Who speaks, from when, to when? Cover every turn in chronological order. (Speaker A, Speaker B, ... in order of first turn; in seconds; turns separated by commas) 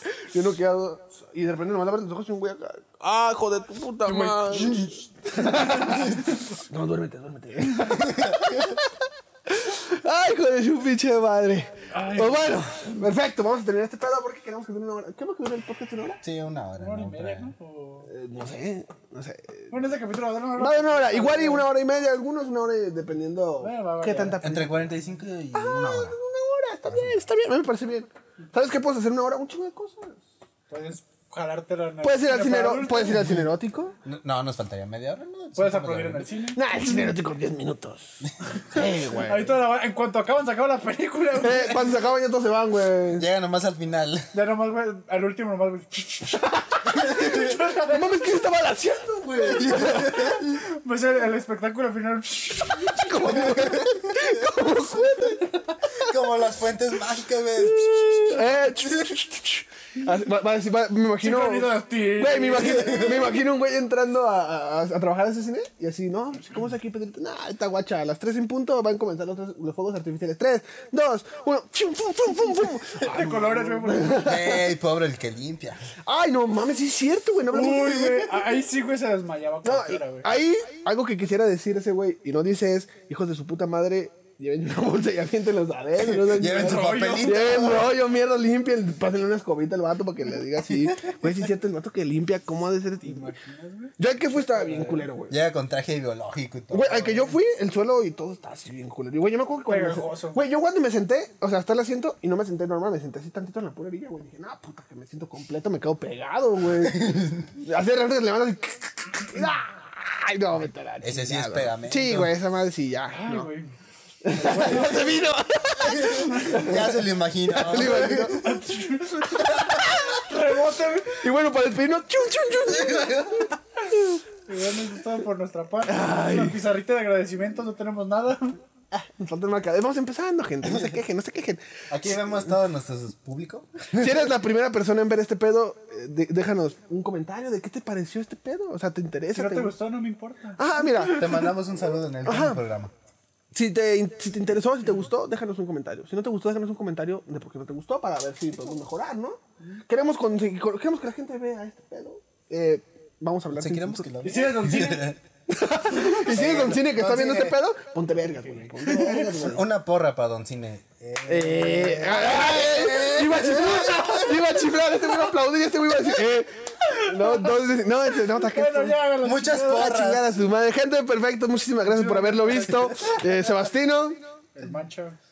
Speaker A: 0.1-16.2, Speaker B: 4.0-4.9, Speaker C: 7.9-8.7, Speaker B: 11.9-13.0, Speaker C: 16.2-17.5, Speaker B: 16.8-18.1, Speaker A: 18.1-19.7, Speaker B: 19.7-21.7, Speaker A: 20.6-24.9, Speaker B: 23.6-24.4, Speaker C: 24.4-26.2, Speaker A: 25.5-30.2, Speaker C: 26.9-27.2, Speaker B: 30.7-33.3, Speaker A: 32.0-34.0, Speaker C: 34.0-36.3, Speaker B: 35.5-36.6, Speaker A: 36.5-39.6, Speaker B: 39.2-42.0, Speaker A: 41.4-43.3, Speaker C: 43.2-44.3, Speaker B: 44.3-48.1, Speaker C: 47.0-47.5, Speaker A: 47.8-50.4, Speaker C: 49.4-50.6, Speaker B: 50.5-53.5, Speaker A: 52.8-55.6, Speaker C: 53.4-54.3, Speaker C: 55.9-59.1, Speaker A: 57.7-74.8, Speaker B: 61.2-63.2, Speaker C: 62.6-63.2, Speaker B: 73.0-74.3, Speaker C: 74.2-75.8, Speaker A: 76.0-78.5, Speaker B: 77.5-80.3, Speaker A: 79.6-93.3, Speaker C: 86.1-87.9, Speaker B: 86.4-87.8, Speaker C: 90.7-91.2, Speaker B: 93.0-95.1, Speaker A: 94.0-95.3, Speaker C: 95.3-97.3, Speaker A: 96.7-113.5, Speaker B: 99.7-100.5, Speaker C: 106.8-107.5, Speaker C: 111.0-112.3, Speaker B: 113.1-113.7, Speaker A: 114.2-118.5, Speaker B: 114.3-115.3, Speaker C: 115.9-118.6, Speaker B: 116.3-116.7, Speaker B: 118.3-121.3, Speaker C: 119.4-120.0, Speaker A: 121.2-123.5, Speaker C: 122.8-123.4, Speaker B: 124.5-128.6, Speaker A: 125.9-126.6, Speaker A: 129.0-132.3, Speaker C: 131.9-134.2, Speaker A: 133.9-139.7, Speaker B: 139.3-140.8, Speaker A: 140.6-141.4, Speaker C: 141.1-142.9, Speaker A: 142.2-142.6, Speaker A: 143.5-154.1, Speaker C: 153.5-155.2, Speaker B: 154.2-155.2, Speaker A: 155.5-159.6, Speaker B: 156.1-156.4, Speaker C: 156.3-157.6, Speaker B: 158.4-159.3, Speaker C: 159.2-164.4, Speaker A: 161.3-169.0, Speaker B: 162.8-164.3, Speaker B: 166.9-167.6, Speaker B: 168.3-170.0, Speaker C: 169.2-170.4, Speaker A: 169.7-174.2, Speaker B: 171.9-173.2, Speaker B: 174.6-175.2